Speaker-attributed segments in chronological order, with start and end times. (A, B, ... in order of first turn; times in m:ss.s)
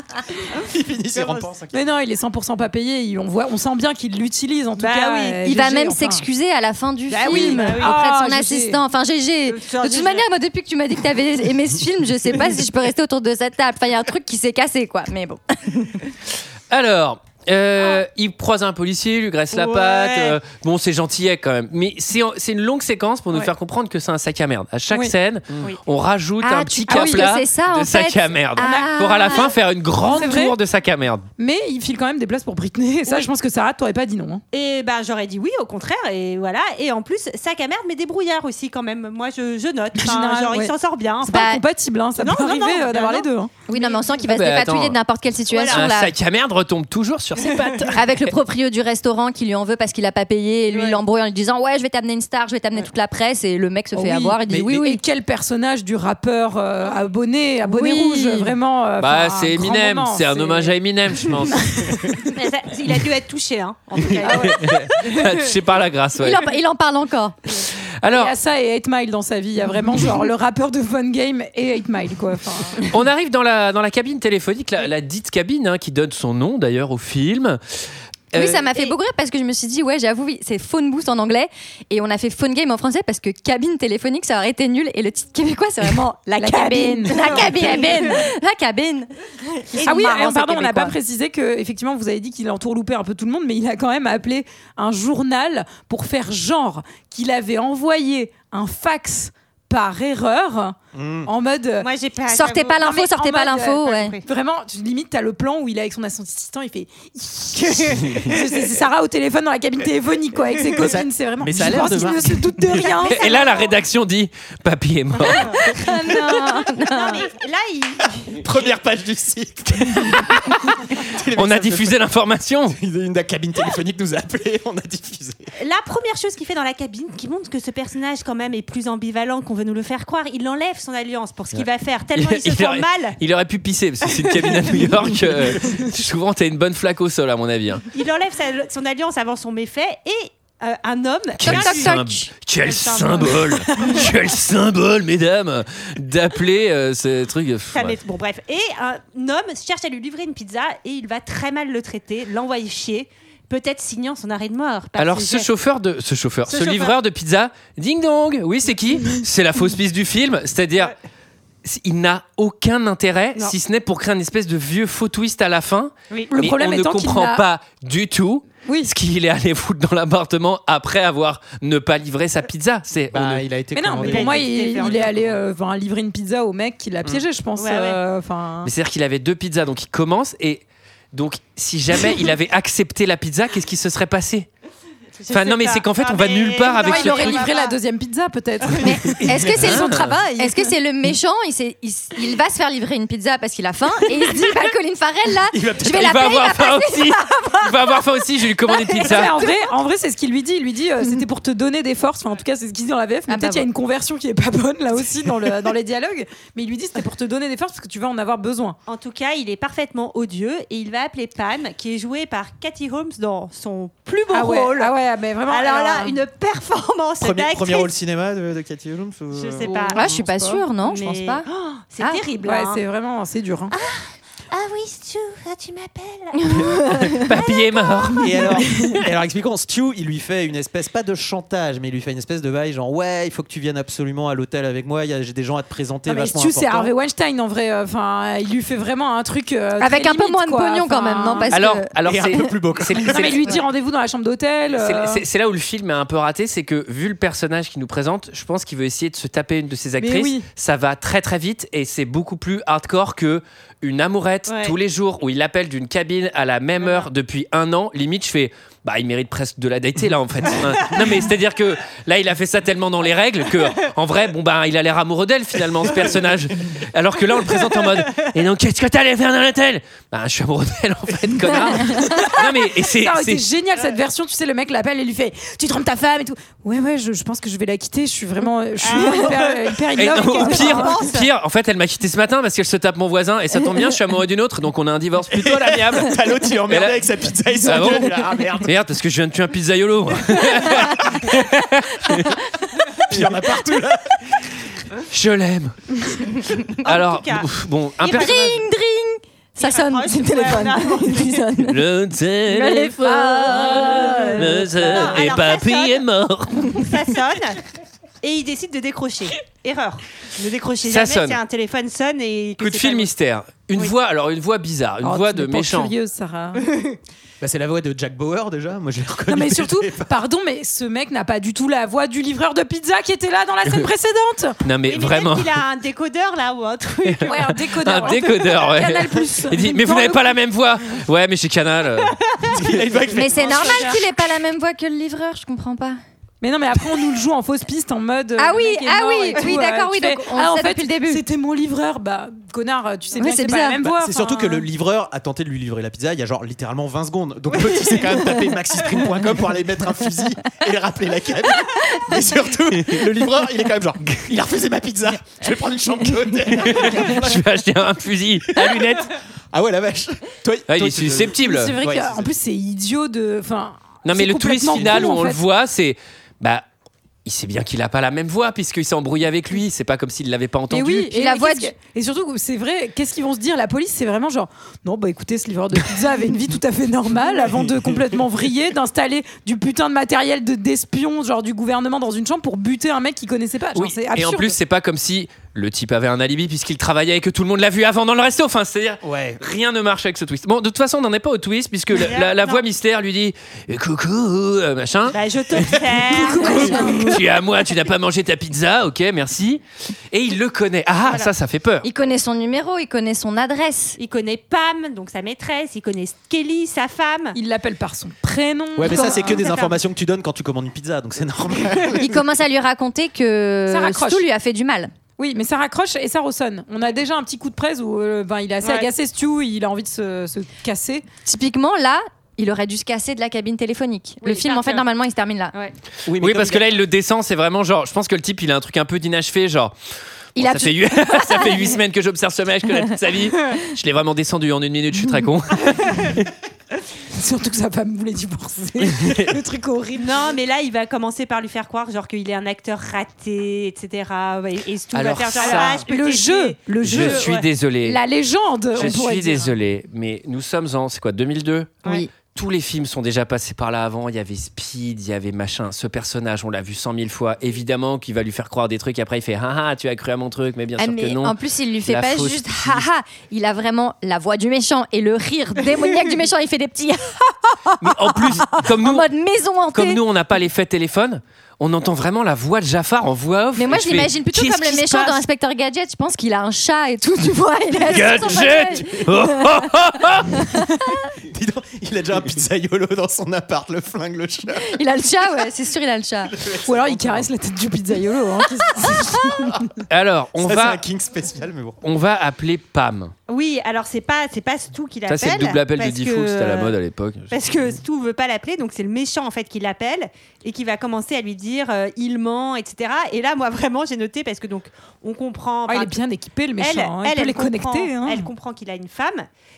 0:00.6-0:01.5 A
0:00.6-0:01.9 B
0:01.7-0:06.3 C
0:04.8-0:05.5 A
0:05.4-0:16.0 D
0:07.1-0:08.1 A
0:07.2-0:08.8 C
0:09.5-0:10.3 A
0:16.7-0:31.3 E
0:19.5-0:20.4 A
0:26.4-0:29.5 D
0:26.9-0:27.3 C
0:28.6-0:29.4 C
0:30.1-0:30.6 C
0:31.4-0:34.4 C
0:33.1-0:33.3 A
0:34.5-0:41.5 A
0:40.0-0:40.7 C
0:41.2-0:43.5 C
0:41.3-0:41.6 D
0:42.2-0:44.1 A
0:43.7-0:46.1 D
0:44.2-0:45.0 E
0:45.5-0:45.9 A
0:45.7-0:48.3 E
0:47.9-0:55.0 D
0:50.7-0:51.0 A
0:54.0-1:00.8 C
0:54.5-0:54.9 B
0:57.6-0:58.5 D
0:59.0-1:01.6 E
1:02.3-1:05.3 A
1:04.3-1:04.5 C
1:04.4-1:06.5 E
1:06.2-1:07.4 D
1:08.0-1:08.3 E
1:08.1-1:12.8 C
1:12.9-1:17.6 E
1:18.3-1:18.7 E
1:18.3-1:29.1 D
1:26.3-1:28.2 C
1:27.1-1:28.2 A
1:29.7-1:31.0 D
1:29.8-1:41.9 C
1:29.8-1:30.2 A
1:40.9-1:41.3 B
1:41.8-1:43.0 A
1:42.3-1:44.2 D
1:42.8-1:53.3 C
1:43.6-1:44.2 A
1:50.7-1:52.8 B
1:52.7-1:53.8 A
1:53.1-1:55.8 E
1:55.7-1:57.2 D
1:56.7-1:58.4 A
1:58.3-2:02.0 B
2:01.4-2:02.8 E
2:02.7-2:05.5 B
2:05.6-2:13.2 A
2:12.2-2:17.8 E
2:17.9-2:22.0 A
2:21.4-2:28.0 E
2:21.4-2:22.3 D
2:22.6-2:24.1 A
2:27.7-2:35.5 A
2:35.0-2:40.9 E
2:36.5-2:37.0 A
2:41.6-2:53.4 E
2:46.3-2:47.4 C
2:48.7-2:48.9 C
2:53.1-2:55.4 B
2:53.8-2:58.7 C
2:54.0-2:55.3 A
2:57.6-2:58.0 A
2:58.6-3:04.5 E
3:05.2-3:07.8 A
3:05.3-3:07.5 E
3:06.8-3:10.7 C
3:08.8-3:18.0 D
3:09.1-3:09.6 B
3:09.6-3:10.1 E
3:15.5-3:16.4 B
3:15.9-3:19.4 E
3:19.0-3:19.5 D
3:19.0-3:28.8 C
3:23.3-3:23.7 D
3:28.9-3:35.0 A
3:34.3-3:36.2 C
3:35.5-3:37.9 A
3:37.2-3:39.9 B
3:39.3-3:40.1 A
3:39.9-3:40.6 C
3:39.9-3:41.4 D
3:40.8-3:42.8 A
3:41.5-3:41.8 C
3:42.4-3:43.7 C
3:43.7-3:48.1 A
3:46.4-3:47.2 D
3:47.1-3:48.2 E
3:48.2-3:56.9 B
3:56.1-4:01.5 C
3:59.8-4:02.4 D
4:01.5-4:03.6 E
4:02.0-4:03.6 B
4:03.1-4:05.2 C
4:04.7-4:33.4 E
4:10.0-4:10.5 C
4:14.5-4:14.8 A
4:16.8-4:17.1 A
4:31.6-4:41.1 C
4:38.8-4:41.3 A
4:40.0-4:47.0 E
4:45.3-4:48.8 B
4:47.6-4:52.3 E
4:50.8-4:51.2 B
4:53.0-4:54.2 B
4:55.1-4:56.0 E
4:56.7-4:58.5 E
4:56.8-4:57.5 A
4:58.0-4:58.6 A
4:58.1-5:01.8 D
4:59.6-5:01.4 A
5:01.7-5:06.8 E
5:02.5-5:05.2 D
5:04.8-5:06.0 A
5:06.7-5:07.6 A
5:08.2-5:13.1 A
5:10.8-5:11.4 E
5:12.6-5:15.9 E
5:15.0-5:16.6 C
5:17.4-5:20.1 B
5:19.3-5:24.6 C
5:24.6-5:25.6 E
5:24.9-5:28.2 A
5:27.0-5:32.2 E
5:27.3-5:30.3 C
5:32.5-5:34.0 B
5:32.7-5:34.0 A
5:33.1-5:36.0 D
5:36.4-5:44.6 C
5:38.4-5:41.2 D
5:43.2-5:43.8 D
5:43.8-5:57.4 B
5:56.6-5:59.1 E
5:58.6-5:59.0 B
5:59.5-6:02.3 B
6:00.7-6:01.8 E
6:01.4-6:05.4 C
6:04.0-6:06.7 E
6:04.7-6:05.1 B
6:07.2-6:11.1 E
6:10.7-6:24.6 C
6:11.1-6:11.8 D
6:17.3-6:18.2 B
6:23.8-6:35.8 E
6:29.0-6:29.4 B
6:31.9-6:32.6 A
6:35.1-6:36.9 A
6:36.3-6:37.2 C
6:36.4-6:41.9 E
6:41.1-6:41.3 A
6:41.8-6:44.0 D
6:44.0-6:47.4 A
6:47.4-6:49.5 C
6:48.8-6:52.2 B
6:48.8-6:49.8 A
6:52.0-6:54.9 D
6:53.7-6:54.3 C
6:55.2-7:01.1 C
6:58.6-6:58.9 A
7:01.2-7:05.6 D
7:04.2-7:04.9 A
7:06.1-7:06.8 B
7:06.2-7:09.8 E
7:10.4-7:11.8 D
7:10.4-7:16.2 E
7:17.1-7:20.2 C
7:18.9-7:19.3 E
7:20.0-7:27.4 A
7:24.9-7:25.8 E
7:25.4-7:27.3 C
7:26.8-7:28.0 E
7:27.8-7:29.5 C
7:28.7-7:31.8 E
7:31.8-7:32.1 D
7:32.3-7:42.9 E
7:40.8-7:50.0 D
7:47.8-7:49.1 E
7:49.7-7:55.2 E
7:53.6-7:59.7 D
7:57.9-8:00.5 E
8:00.5-8:01.0 D
8:01.3-8:04.8 B
8:04.6-8:06.3 D
8:06.3-8:07.3 B
8:06.6-8:09.3 C
8:09.9-8:10.8 E
8:10.4-8:11.8 B
8:11.8-8:13.1 E
8:13.3-8:16.8 A
8:15.1-8:17.3 E
8:17.3-8:26.0 A
8:25.7-8:28.3 C
8:26.6-8:29.3 A